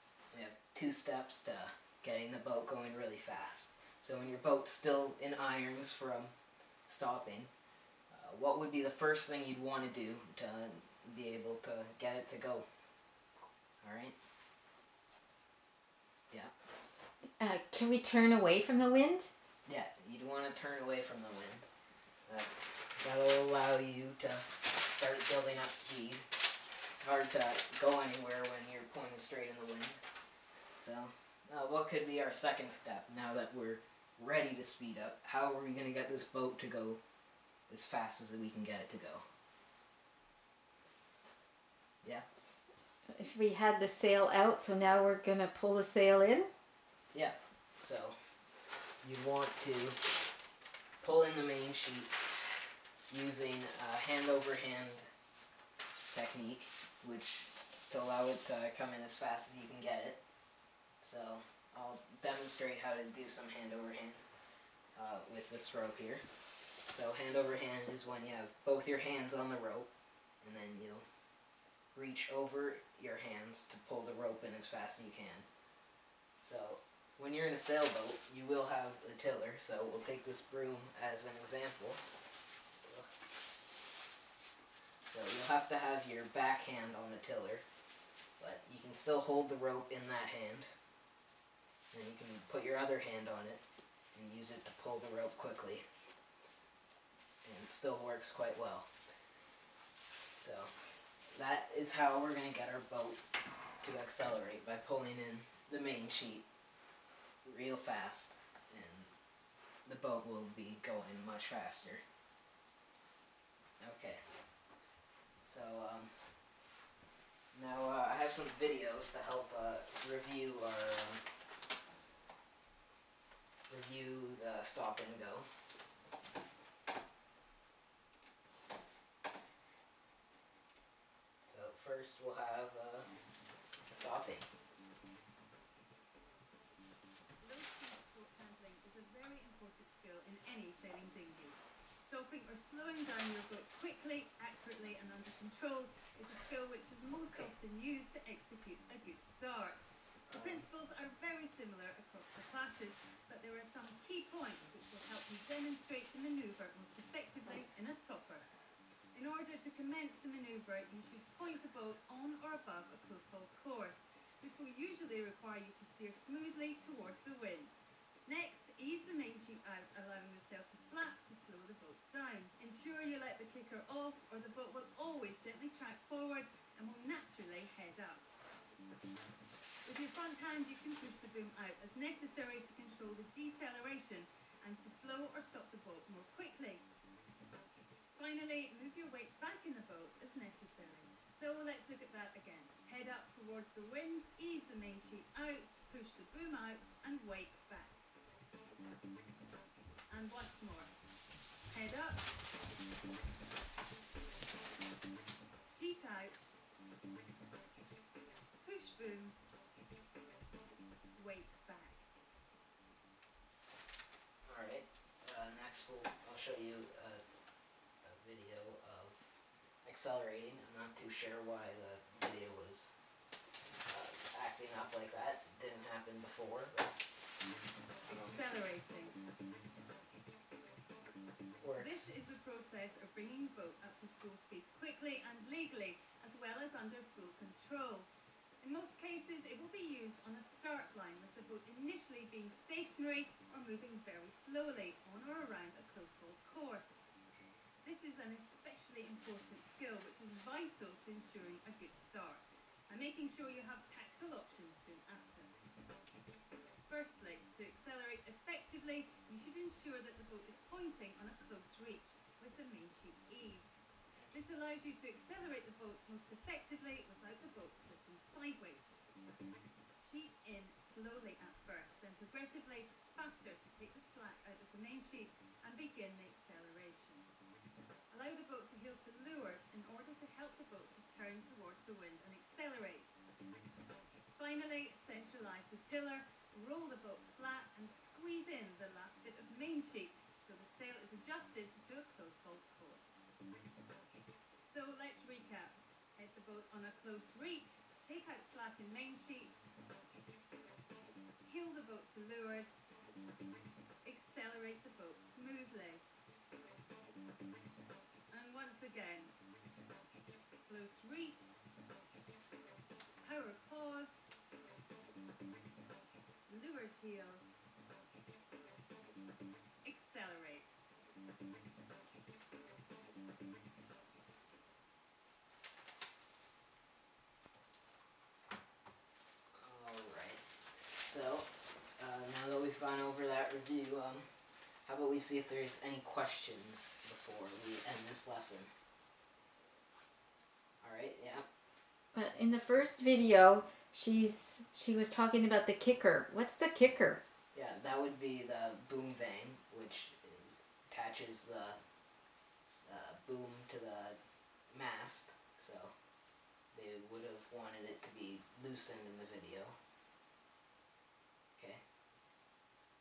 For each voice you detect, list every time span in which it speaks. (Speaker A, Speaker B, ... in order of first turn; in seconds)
Speaker A: 0.3-6.3, 6.8-7.5, 8.1-12.7, 13.8-14.1, 19.6-21.7, 22.2-26.3, 26.9-30.0, 30.8-37.0, 37.7-39.2, 47.1-48.4, 49.0-50.0, 51.0-52.1, 53.1-55.1, 56.1-60.2, 61.0-64.2, 64.9-66.2, 66.9-71.0, 71.9-75.5, 76.4-82.0, 82.8-83.1, 85.0-87.7, 88.4-90.7, 91.9-93.6, 94.1-95.8, 97.4-98.9, 100.3-103.2, 103.8-106.5, 107.4-109.2, 109.8-112.0, 113.8-114.5, 115.4-116.4, 117.5-121.3, 123.7-125.5, 131.4-133.1, 133.9-134.5, 150.3-150.7, 214.4-217.2, 218.0-219.3, 219.8-223.0, 223.8-227.0, 228.1-228.4, 231.6-232.0, 329.5-338.7, 340.8-341.4, 347.5-351.8, 352.6-356.0, 356.7-359.8, 361.5-361.8
Speaker B: 17.4-19.3, 43.1-46.5, 342.1-347.2
Speaker C: 137.4-158.5, 159.1-167.7, 168.2-178.2, 179.8-186.8, 188.1-197.9, 200.1-200.9, 201.7-202.2, 205.6-206.5, 208.6-209.3, 211.1-212.0, 228.1-229.2, 231.8-238.1, 238.6-247.1, 247.8-255.5, 256.9-268.9, 270.0-277.3, 278.1-283.1, 284.4-293.2, 294.6-299.6, 301.4-302.7, 304.0-306.0, 308.3-309.3, 310.7-311.5, 313.2-314.2, 316.5-317.4, 319.8-320.8